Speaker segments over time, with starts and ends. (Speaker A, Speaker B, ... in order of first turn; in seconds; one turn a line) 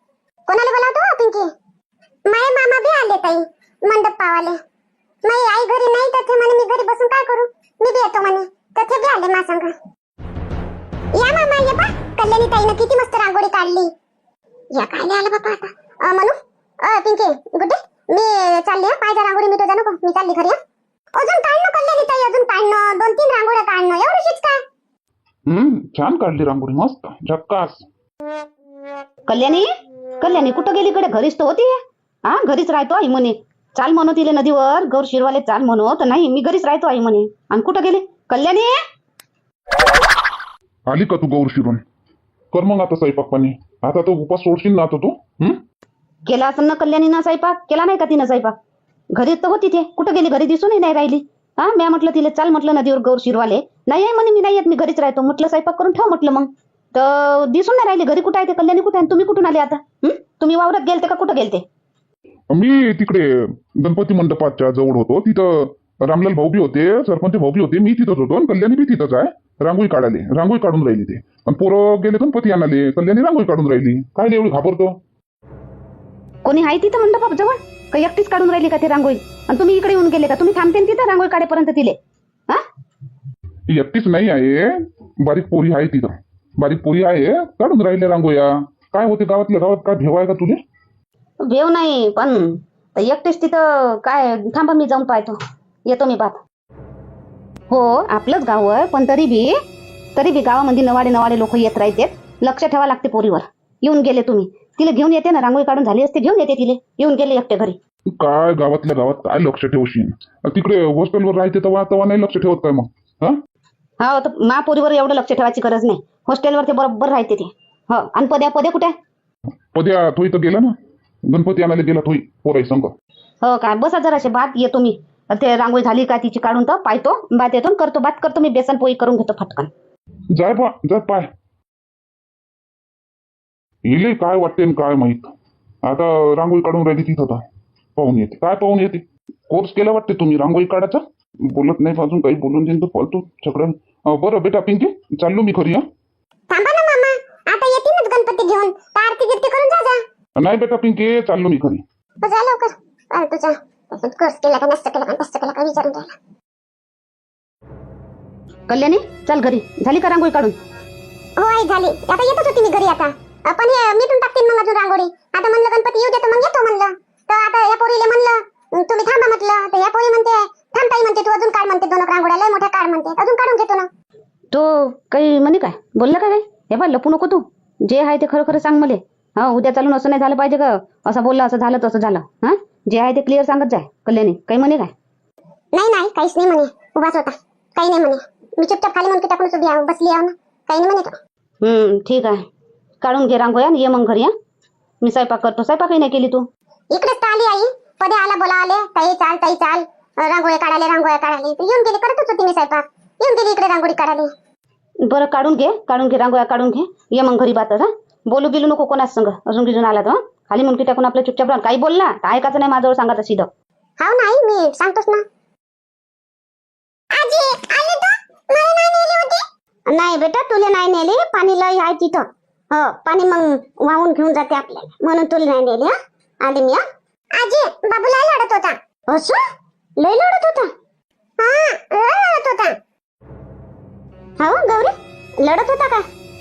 Speaker A: 0.5-1.5
Speaker A: 2.3-4.6
Speaker A: 5.2-9.7
Speaker A: 11.2-13.9
Speaker A: 14.7-20.6
Speaker A: 21.2-24.6
Speaker B: 25.4-27.8
Speaker C: 29.3-29.7
Speaker C: 30.2-38.8
Speaker B: 40.9-41.8
Speaker B: 42.5-45.6
Speaker C: 46.3-48.5
Speaker C: 49.1-61.6
Speaker B: 62.5-75.0
Speaker C: 76.4-82.6
Speaker B: 83.7-90.6
Speaker C: 91.4-96.4
Speaker C: 97.7-99.6
Speaker C: 100.2-107.8
Speaker B: 108.1-113.4
Speaker C: 114.0-119.0
Speaker B: 119.7-120.7
Speaker B: 121.2-122.9
Speaker C: 123.4-129.7
Speaker B: 130.3-131.3
Speaker B: 133.8-135.3
Speaker B: 135.8-137.4
Speaker B: 137.9-145.8
Speaker A: 146.5-150.0
Speaker B: 150.3-151.8
Speaker A: 152.2-156.1
Speaker C: 158.7-160.6
Speaker A: 161.4-173.9
Speaker C: 174.5-184.9
Speaker A: 185.7-191.1
Speaker C: 191.6-192.4
Speaker C: 193.0-194.3
Speaker C: 195.0-196.4
Speaker A: 196.9-204.3
Speaker C: 205.0-213.5
Speaker A: 214.0-215.2
Speaker A: 217.1-226.8
Speaker A: 227.4-229.4
Speaker A: 230.0-230.7
Speaker A: 231.4-232.7
Speaker A: 234.4-236.0